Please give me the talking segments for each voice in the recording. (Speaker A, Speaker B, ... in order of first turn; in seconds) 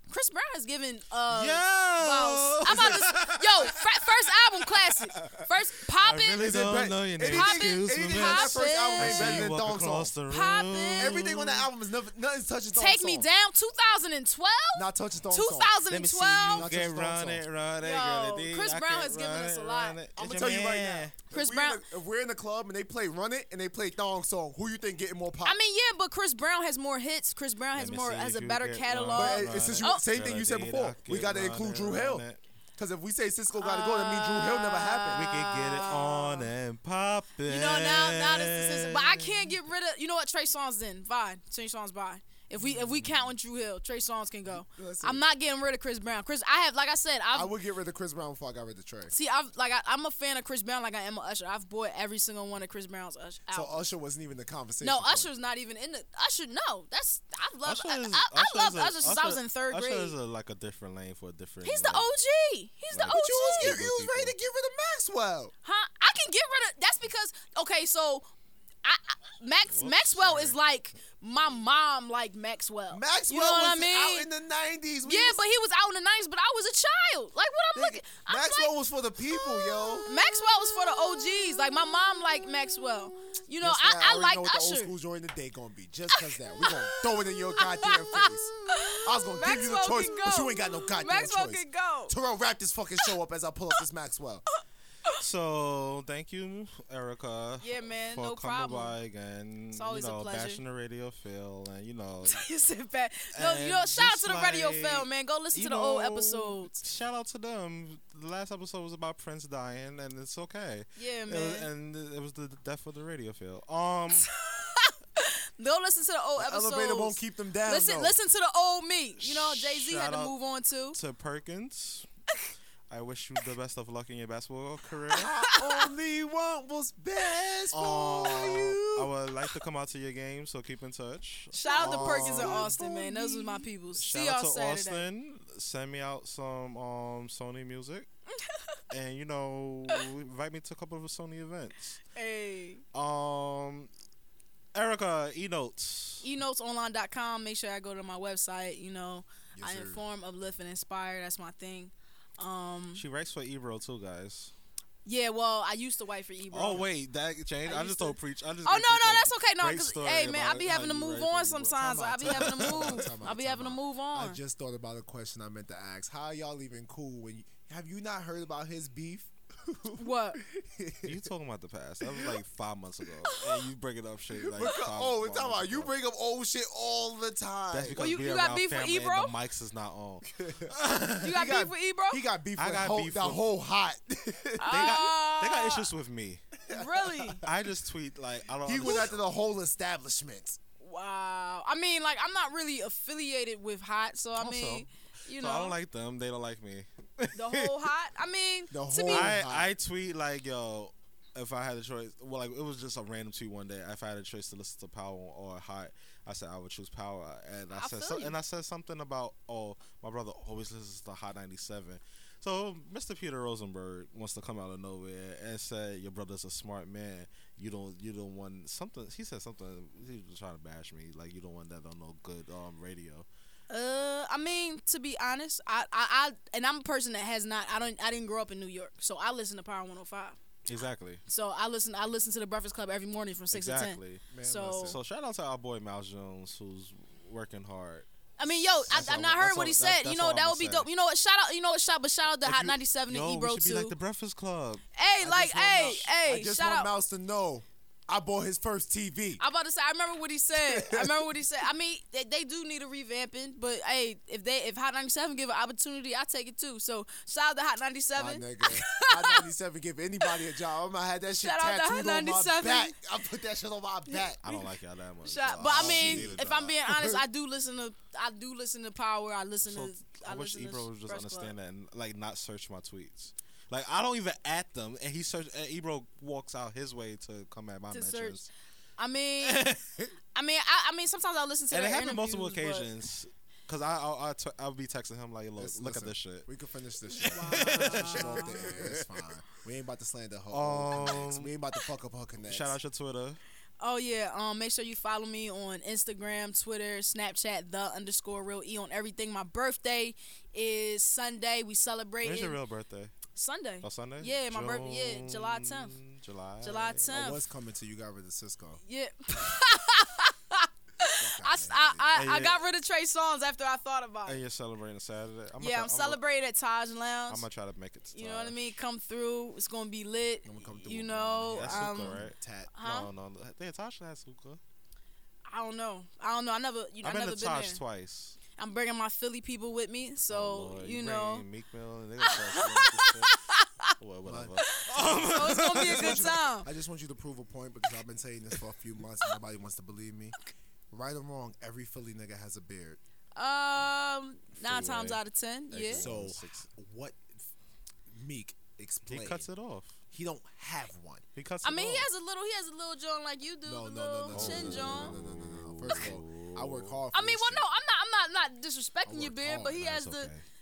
Speaker A: 0.1-6.7, 7.3-9.5, 10.3-11.2, 12.7-16.7, 17.8-20.0, 21.3-21.8, 25.4-30.0, 33.5-36.5, 37.5-47.5, 49.1-53.8, 54.8-60.1, 61.6-63.8, 65.6-68.3, 68.8-74.3, 75.0-78.7, 79.4-84.9, 86.1-92.2, 97.6-99.0, 99.7-100.6, 102.3-106.7, 111.0-111.7, 114.2-121.0, 125.4-125.8, 131.5-135.0, 138.4-138.8, 142.1-142.8, 146.2-153.0, 155.0-156.9, 157.7-164.4, 170.0-170.4, 173.2-173.6, 177.9-179.3, 181.2-182.2, 184.6-185.9, 186.7-187.4, 188.8-189.1, 190.8-195.8, 197.3-199.3, 207.7-208.4, 223.7-230.4, 231.3-235.0, 238.4-243.9, 244.9-246.9, 249.4-259.5, 261.4-262.9, 264.1-264.6, 265.2-271.5, 277.9-278.4, 279.0-279.7, 280.3-282.9, 287.2-288.7, 293.8-302.6, 303.3-305.9, 306.6-307.4, 308.9-314.4, 315.6-317.4, 318.1-322.2, 322.7-323.1, 325.5-327.8, 328.6-331.4, 332.2-333.9, 334.6-336.7, 343.4-346.0, 351.6-355.1, 357.1-360.3
Speaker B: 1.3-11.7, 15.9-21.1, 27.8-32.4, 35.1-39.5, 57.6-62.1, 62.9-64.3, 69.7-70.6, 95.2-102.5, 103.3-114.3, 119.2-120.3, 120.9-122.1, 122.9-125.3, 127.7-132.7, 134.0-138.1, 138.9-142.0, 142.9-143.9, 144.7-146.2, 152.9-154.5, 156.5-163.1, 171.0-175.9, 177.7-181.4, 182.6-183.4, 184.7-186.6, 187.4-189.2, 194.4-197.9, 199.1-223.2, 230.7-231.2, 233.5-234.3, 234.8-238.1, 238.9-240.9, 242.4-244.8, 264.4-266.8, 269.6-278.5, 279.4-280.1, 281.7-286.5, 287.3-289.1, 290.5-291.5, 292.5-293.4, 302.2-303.1, 303.8-307.1, 312.1-312.6, 314.2-316.2, 317.3-318.6, 321.5-324.6, 327.0-328.4, 330.3-333.3, 334.0-336.3, 344.6-346.7, 349.1-350.0, 351.4-352.1, 354.3-357.0, 359.8-360.4
Speaker C: 6.4-10.1, 11.0-13.3, 14.7-15.8, 16.6-17.4, 20.1-25.6, 29.1-32.2, 32.8-35.3, 42.6-43.1, 44.5-45.2, 47.3-49.1, 53.5-55.3, 63.0-65.5, 72.9-75.4, 77.7-94.4, 116.4-118.2, 125.1-129.1, 131.7-133.7, 149.6-150.0, 161.8-171.2, 174.4-178.0, 180.3-185.1, 186.7-187.5, 188.6-190.6, 198.7-199.8, 234.3-235.0, 245.2-249.4, 250.6-251.3, 258.1-264.4, 265.6-267.2, 285.6-292.8, 307.1-308.8, 311.1-312.2, 320.4-322.7, 334.2-340.4, 340.9-343.0, 345.9-347.5, 348.1-349.5, 350.1-351.2, 353.6-357.6, 359.1-359.8